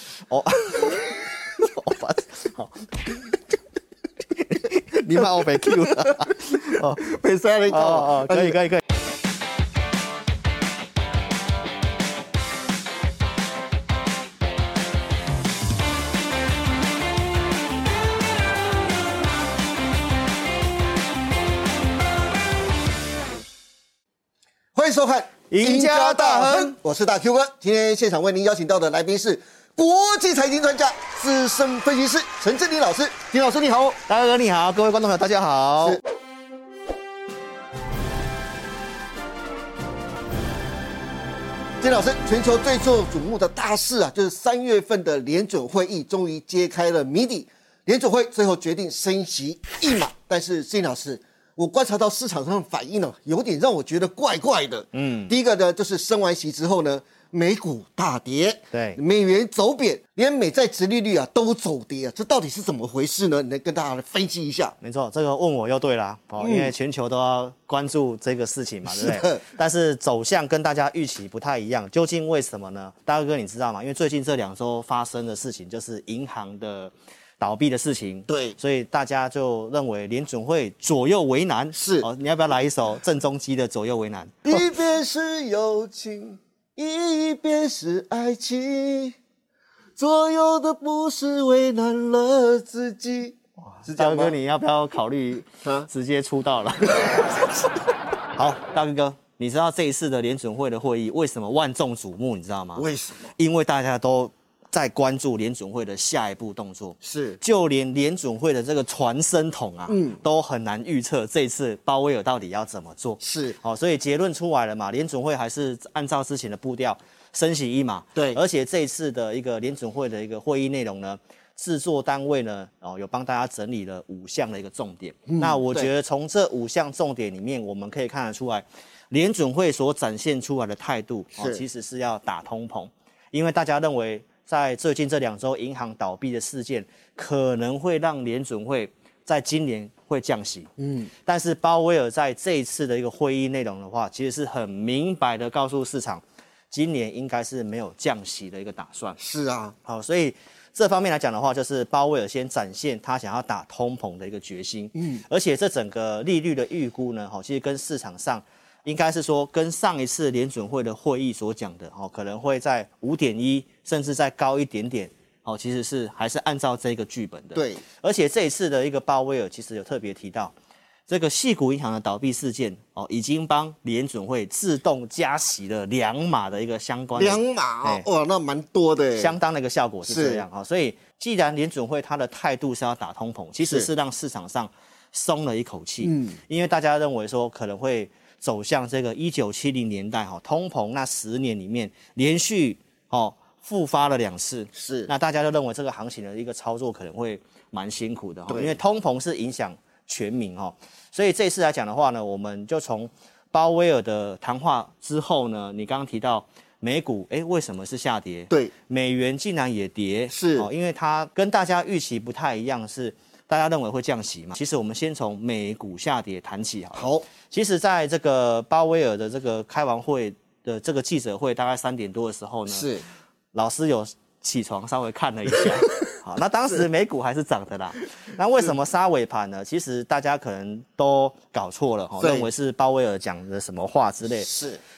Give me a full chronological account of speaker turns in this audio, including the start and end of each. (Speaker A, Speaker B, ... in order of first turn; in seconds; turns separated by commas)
Speaker A: 0.3-3.3, Speaker A: 4.4-7.0, Speaker B: 5.1-8.6, Speaker A: 7.7-8.8, Speaker B: 24.7-34.0, Speaker A: 25.5-26.8, Speaker A: 34.0-36.0, Speaker B: 41.8-64.7, Speaker A: 54.9-55.3, Speaker A: 58.7-59.0, Speaker A: 64.8-84.6, Speaker B: 66.4-66.7, Speaker B: 68.9-69.4, Speaker B: 78.3-78.5, Speaker B: 81.8-82.1, Speaker B: 84.5-89.1, Speaker B: 90.0-94.3, Speaker A: 93.6-97.5, Speaker B: 95.6-95.9, Speaker A: 98.3-140.7, Speaker B: 102.8-103.3, Speaker B: 107.0-107.4, Speaker B: 109.9-110.2, Speaker B: 113.2-113.6, Speaker B: 125.3-125.9, Speaker B: 131.3-131.6, Speaker B: 140.8-141.1, Speaker A: 141.2-149.2, Speaker B: 149.2-149.8, Speaker A: 149.8-170.5, Speaker B: 155.0-155.2, Speaker B: 167.5-167.8, Speaker A: 171.1-178.1, Speaker B: 177.2-179.3, Speaker A: 179.1-222.9, Speaker B: 180.0-180.4, Speaker B: 183.6-183.9, Speaker B: 186.0-186.4, Speaker B: 194.7-195.1, Speaker B: 198.5-198.8, Speaker B: 210.3-210.7, Speaker B: 216.9-217.2, Speaker B: 222.7-223.0, Speaker A: 223.5-234.5, Speaker B: 232.2-232.5, Speaker B: 234.4-234.8